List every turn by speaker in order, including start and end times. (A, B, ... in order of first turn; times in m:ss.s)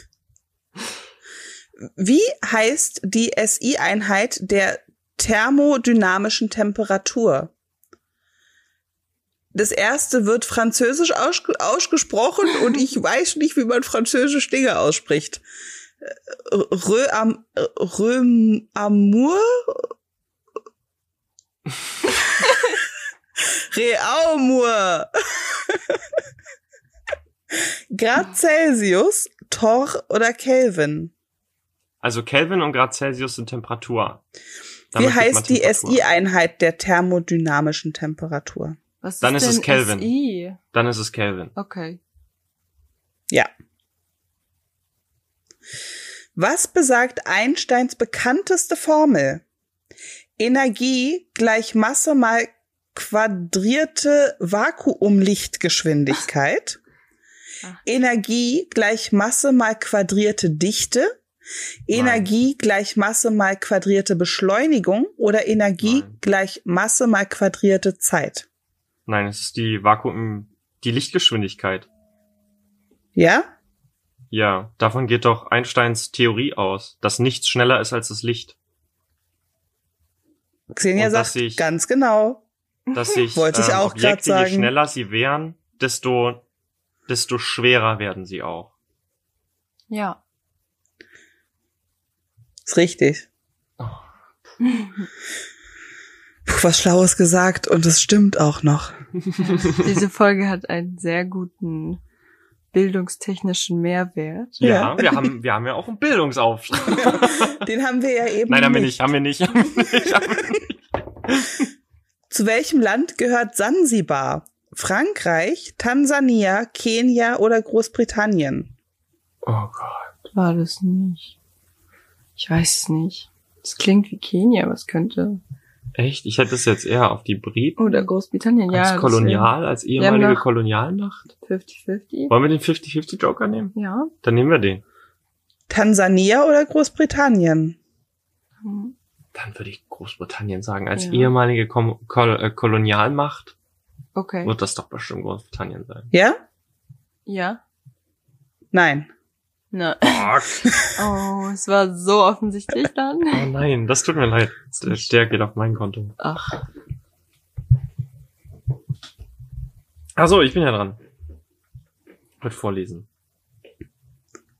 0:02.0-0:07.5 A
0:09.5-0:15.4 A
0:16.0-0:19.9 A
0:23.7-0:26.0 A
0:27.9-0:31.1 A
0:32.0-0:34.2 B
0:34.9-0:36.0 B
0:34.9-0:38.8 A
0:39.0-0:40.6 C
0:39.2-0:40.1 B
0:40.7-0:41.5 B
0:41.6-0:42.0 C
0:46.4-0:49.4 A
0:50.4-0:56.8 A
0:57.8-1:01.1 A
1:01.9-1:08.4 A
1:01.9-1:02.3 B
1:05.8-1:06.2 B
1:09.0-1:11.9 B
1:13.2-1:13.5 A
1:14.3-1:18.6 B
1:20.7-1:22.4 A
1:21.0-1:21.6 B
1:22.9-1:26.4 B
1:23.3-1:24.7 A
1:27.1-1:28.7 B
1:29.9-1:30.2 C
1:32.6-1:33.2 A
1:33.8-1:34.1 B
1:34.6-1:35.1 C
1:36.4-1:38.9 A
1:39.2-1:40.0 B
1:39.4-1:42.0 C
1:42.7-1:44.6 C
1:44.6-1:47.6 B
1:44.6-1:45.2 A
1:47.0-1:49.0 A
1:48.5-1:51.6 B
1:52.3-1:58.7 A
1:59.4-2:00.1 B
2:00.3-2:01.3 C
2:02.4-2:05.4 C
2:06.0-2:08.1 B
2:07.8-2:10.4 C
2:08.7-2:11.3 B
2:11.4-2:12.3 C
2:12.3-2:14.8 B
2:13.7-2:14.1 C
2:15.7-2:17.8 A
2:18.6-2:18.9 C
2:19.3-2:23.5 B
2:20.9-2:21.3 C
2:24.1-2:24.5 C
2:24.4-2:26.1 B
2:26.1-2:26.4 A
2:27.2-2:27.6 C
2:28.7-2:29.1 A
2:29.7-2:30.4 C
2:30.0-2:30.6 B
2:30.9-2:33.5 C
2:33.3-2:36.1 B
2:36.2-2:36.6 C
2:40.1-2:41.0 B
2:42.4-2:43.0 B